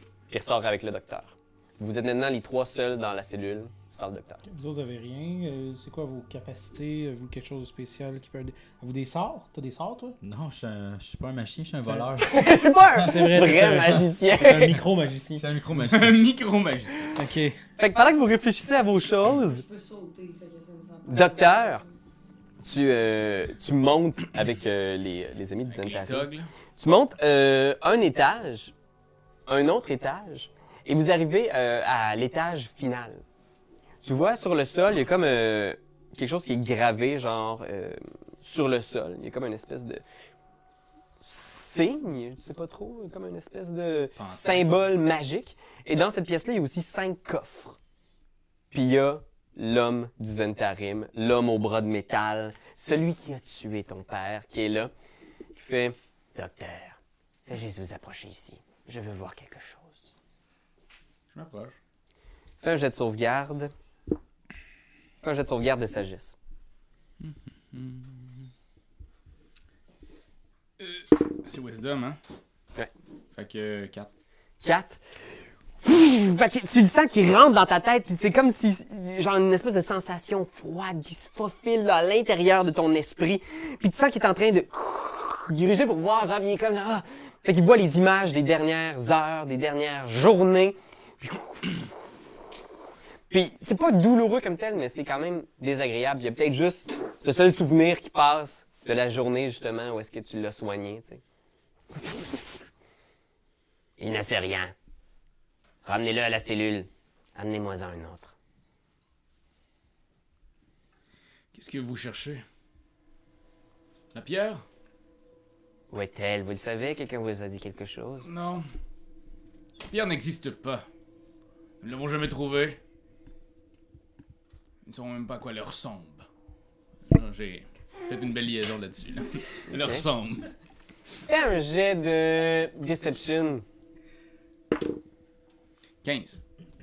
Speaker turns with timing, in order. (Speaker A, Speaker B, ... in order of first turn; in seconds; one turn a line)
Speaker A: 0.3-4.4
Speaker B: 4.5-10.2
Speaker C: 10.2-13.4
Speaker B: 11.9-12.3
Speaker A: 12.2-14.8
Speaker B: 13.0-15.4
Speaker C: 15.4-16.2
Speaker D: 15.8-17.4
Speaker B: 17.1-17.6
Speaker A: 17.8-19.6
Speaker E: 19.5-21.9
Speaker A: 21.1-21.8
Speaker A: 22.6-28.7
Speaker D: 25.7-26.5
Speaker A: 29.5-33.2
Speaker A: 34.0-40.0
Speaker A: 41.2-47.8
Speaker D: 44.2-44.9
Speaker A: 48.7-54.9
Speaker A: 55.5-60.1
Speaker D: 61.4-61.7
Speaker A: 62.6-63.7
Speaker A: 65.2-66.4
Speaker D: 67.2-68.5
Speaker D: 70.8-72.2
Speaker D: 73.3-74.1
Speaker A: 74.6-75.0
Speaker A: 75.8-91.9
Speaker A: 93.3-101.2
Speaker A: 101.9-102.4
Speaker A: 104.0-104.7
Speaker A: 105.8-108.3
Speaker D: 111.5-112.4
Speaker D: 114.1-114.6
Speaker A: 115.9-118.3
Speaker D: 118.2-118.7
Speaker D: 119.9-120.9
Speaker D: 121.8-122.8
Speaker D: 124.8-126.3
Speaker D: 127.1-130.5
Speaker A: 129.7-130.1
Speaker A: 131.3-133.7
Speaker D: 136.0-136.4